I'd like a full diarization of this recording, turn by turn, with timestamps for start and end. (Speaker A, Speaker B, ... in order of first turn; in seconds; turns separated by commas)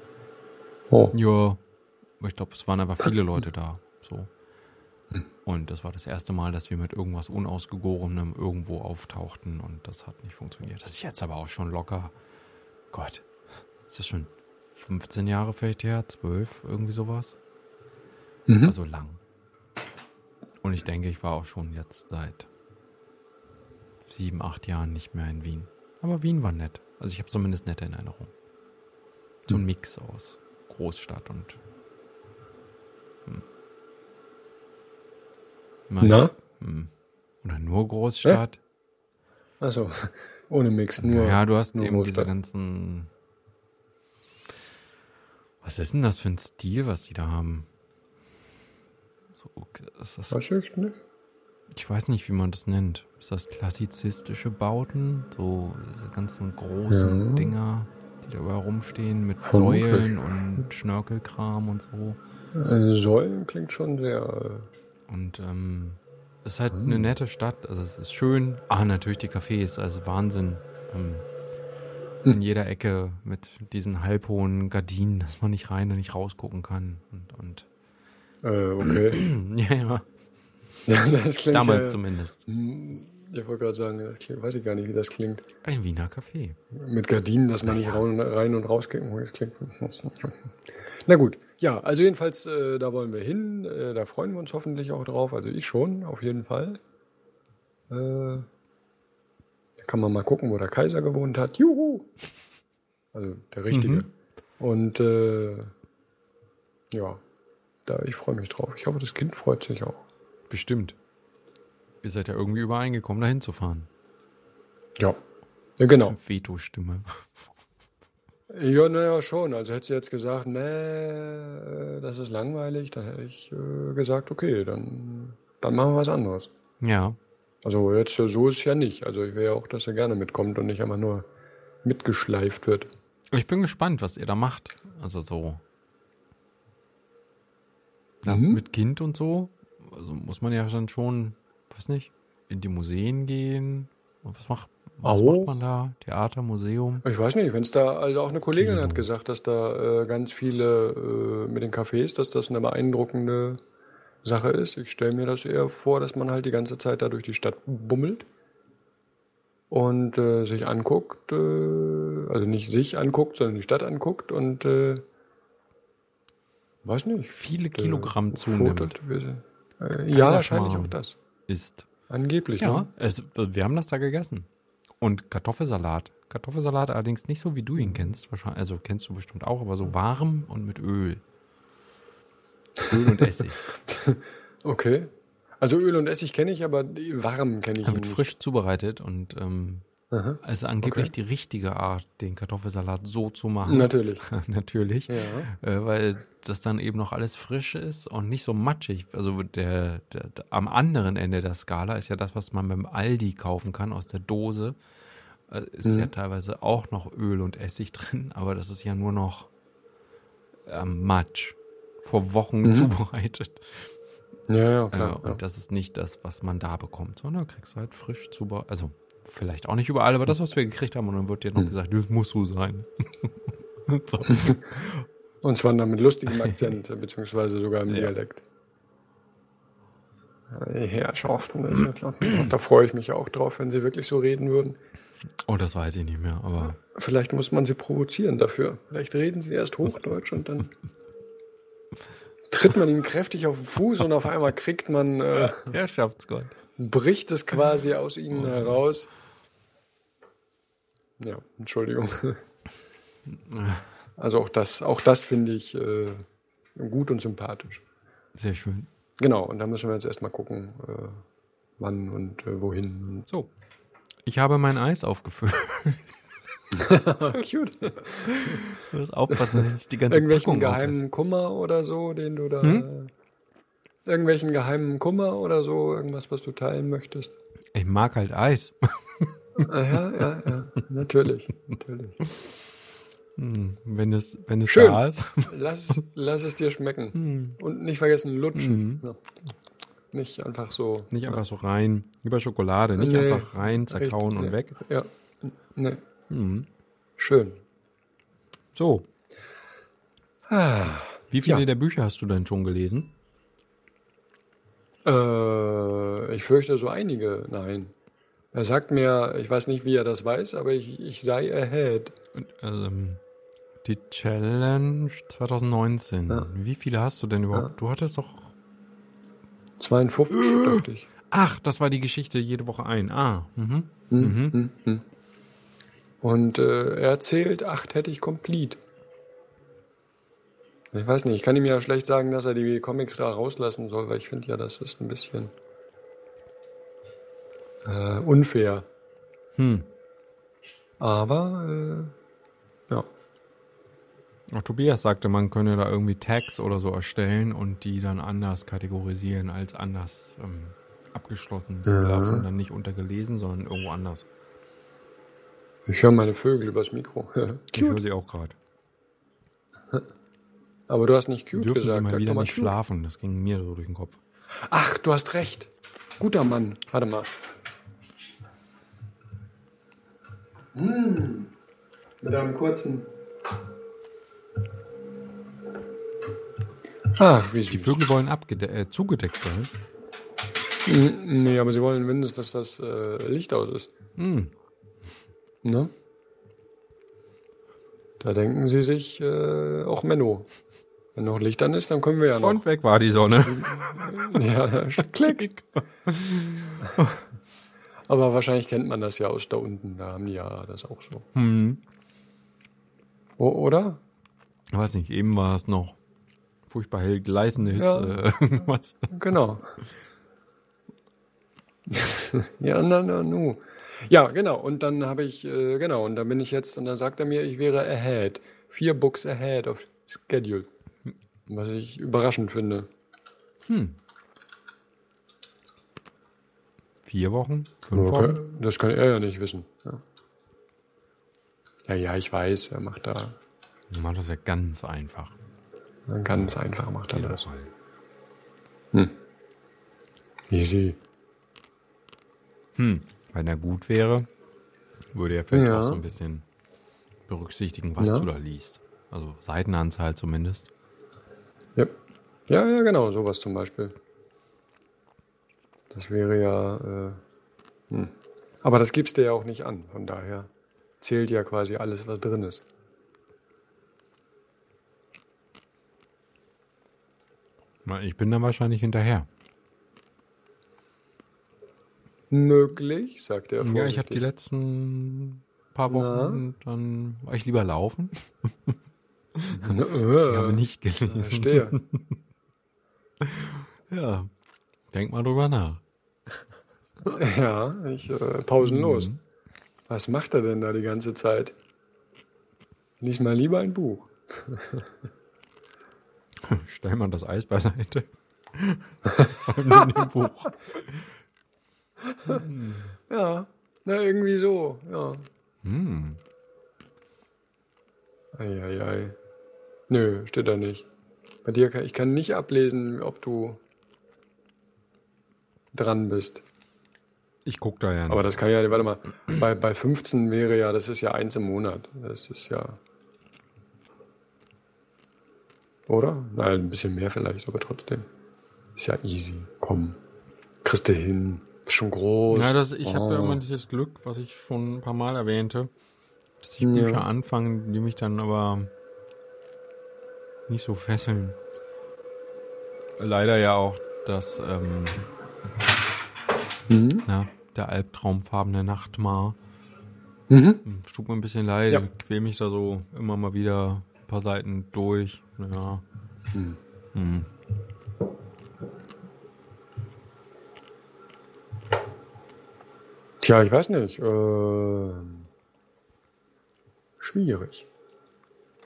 Speaker A: 1.1-1.6, Speaker A: 2.2-4.3, Speaker A: 5.5-12.1, Speaker A: 12.9-13.3, Speaker A: 13.9-17.4, Speaker B: 18.5-18.8, Speaker A: 18.6-19.2, Speaker A: 20.6-22.5, Speaker A: 24.1-28.3, Speaker A: 29.5-31.6, Speaker A: 35.9-36.9, Speaker B: 36.0-36.3, Speaker A: 37.4-38.6, Speaker B: 39.6-42.3, Speaker A: 41.0-43.1, Speaker A: 45.6-47.7, Speaker A: 49.4-50.4, Speaker B: 50.3-51.0, Speaker A: 51.7-62.2, Speaker B: 56.9-57.5, Speaker B: 59.4-60.2, Speaker B: 62.5-64.7, Speaker A: 65.1-71.3, Speaker B: 66.8-67.0, Speaker A: 72.3-77.7, Speaker B: 78.4-79.2, Speaker A: 78.8-80.1, Speaker B: 80.9-85.5, Speaker A: 81.5-82.4, Speaker A: 85.6-86.6, Speaker B: 86.7-90.5, Speaker A: 87.7-88.0, Speaker B: 91.0-96.8, Speaker B: 97.9-98.5, Speaker B: 99.8-102.1, Speaker B: 103.1-104.1, Speaker A: 103.7-104.0, Speaker B: 104.6-105.7, Speaker B: 106.9-107.2, Speaker B: 107.9-110.0, Speaker A: 110.5-111.0, Speaker A: 112.0-113.9, Speaker B: 115.8-116.2, Speaker A: 116.0-117.4, Speaker B: 118.5-126.5, Speaker A: 126.8-127.2, Speaker B: 127.6-131.2, Speaker B: 131.8-132.9, Speaker A: 133.3-135.6, Speaker A: 138.2-147.0, Speaker B: 138.2-138.6, Speaker B: 145.0-145.6, Speaker B: 147.0-153.6, Speaker A: 148.5-149.1, Speaker B: 154.2-158.3, Speaker B: 159.7-165.0, Speaker B: 166.8-171.2, Speaker A: 167.2-168.9, Speaker A: 170.1-171.0, Speaker A: 171.5-171.9, Speaker B: 172.1-172.9, Speaker A: 172.6-174.5, Speaker A: 175.0-181.2, Speaker B: 182.8-188.3, Speaker A: 182.9-183.6, Speaker A: 187.8-189.8, Speaker B: 190.1-191.1, Speaker A: 190.4-204.8, Speaker B: 193.7-194.3, Speaker B: 195.1-195.5, Speaker A: 205.5-209.5, Speaker B: 205.8-206.1, Speaker A: 210.7-213.9, Speaker B: 212.6-212.9, Speaker B: 214.5-215.4, Speaker A: 214.9-225.1, Speaker B: 224.3-224.7, Speaker B: 225.4-228.4, Speaker A: 226.3-226.7, Speaker B: 230.5-234.8, Speaker A: 232.3-232.5, Speaker A: 235.4-236.8, Speaker B: 236.6-240.7, Speaker B: 242.5-245.7, Speaker A: 245.3-246.5, Speaker B: 246.8-249.1, Speaker A: 248.4-248.8, Speaker B: 251.2-252.4, Speaker A: 253.3-253.8, Speaker B: 254.2-256.2, Speaker B: 256.8-257.8, Speaker A: 258.4-258.9, Speaker B: 259.2-261.2, Speaker B: 261.8-263.3, Speaker A: 264.2-266.1, Speaker B: 266.7-268.8, Speaker A: 268.2-271.0, Speaker B: 269.3-273.1, Speaker A: 272.6-272.9, Speaker B: 274.1-277.4, Speaker A: 277.7-279.9, Speaker B: 279.6-282.2, Speaker A: 283.4-285.7, Speaker B: 284.7-289.2, Speaker A: 287.1-287.6, Speaker A: 288.6-289.0, Speaker B: 290.1-291.4, Speaker A: 291.1-294.8, Speaker B: 293.0-296.0, Speaker A: 296.3-296.7, Speaker B: 297.2-297.6, Speaker A: 298.8-299.1, Speaker B: 300.5-301.6, Speaker A: 301.3-303.1, Speaker B: 305.1-307.9, Speaker B: 308.5-312.1, Speaker A: 312.4-313.2, Speaker A: 313.8-318.5, Speaker B: 319.8-321.1, Speaker A: 320.3-324.6, Speaker B: 324.1-325.1, Speaker B: 326.2-328.8, Speaker B: 330.9-335.5, Speaker B: 337.9-338.9, Speaker A: 339.6-339.9, Speaker B: 341.0-342.1, Speaker A: 344.5-354.3, Speaker B: 351.9-352.5, Speaker B: 355.9-358.0, Speaker A: 357.7-358.6, Speaker B: 360.9-362.7, Speaker A: 361.5-364.2, Speaker B: 364.7-367.5, Speaker B: 370.7-371.5, Speaker B: 372.2-373.1, Speaker B: 377.1-378.1, Speaker A: 377.7-379.7, Speaker B: 380.8-383.9, Speaker A: 384.2-384.5, Speaker B: 385.6-385.9, Speaker B: 388.2-390.5, Speaker B: 391.1-392.6, Speaker A: 392.4-394.5, Speaker B: 393.4-395.5, Speaker A: 395.0-397.1, Speaker B: 396.8-397.1, Speaker B: 398.1-401.3, Speaker A: 401.4-401.8, Speaker B: 403.4-404.0, Speaker A: 404.7-406.0, Speaker A: 406.7-409.1, Speaker B: 407.8-408.2, Speaker B: 409.1-409.8, Speaker B: 411.9-420.7, Speaker B: 421.5-422.9, Speaker A: 423.7-424.0, Speaker A: 427.1-428.4, Speaker B: 427.9-430.0, Speaker B: 431.9-433.4, Speaker A: 433.9-435.4, Speaker B: 436.1-437.5, Speaker A: 437.1-437.7, Speaker B: 440.5-441.0, Speaker A: 442.8-444.3, Speaker A: 445.1-446.4, Speaker B: 445.5-446.0, Speaker A: 447.3-450.7, Speaker B: 448.0-448.3, Speaker B: 452.5-453.9, Speaker B: 455.9-457.2, Speaker B: 457.9-460.5, Speaker B: 461.0-462.6, Speaker A: 467.9-469.3, Speaker B: 472.3-474.2, Speaker A: 473.6-478.8, Speaker B: 475.9-476.4, Speaker A: 479.4-482.2, Speaker B: 479.5-481.8, Speaker A: 483.2-484.3, Speaker A: 484.9-485.8, Speaker B: 487.1-489.1, Speaker A: 488.6-489.2, Speaker B: 489.9-491.5, Speaker B: 493.0-494.9, Speaker A: 496.4-501.1, Speaker B: 499.1-500.1, Speaker B: 502.0-502.5, Speaker A: 502.2-502.9, Speaker B: 503.1-505.3, Speaker A: 505.6-506.2, Speaker B: 508.3-509.1, Speaker B: 509.9-510.9, Speaker B: 511.4-513.6, Speaker B: 515.7-516.4, Speaker A: 517.5-518.3, Speaker B: 518.1-522.8, Speaker B: 525.9-528.1, Speaker B: 528.8-530.0, Speaker B: 530.6-533.4, Speaker A: 532.3-535.7, Speaker A: 536.4-538.7, Speaker B: 536.6-537.0, Speaker A: 540.5-541.4, Speaker A: 543.0-545.0, Speaker B: 546.7-547.1, Speaker A: 547.1-549.4, Speaker B: 550.3-550.6, Speaker A: 550.6-555.8, Speaker B: 556.3-556.6, Speaker A: 556.9-557.3, Speaker B: 563.2-565.3, Speaker B: 567.0-567.7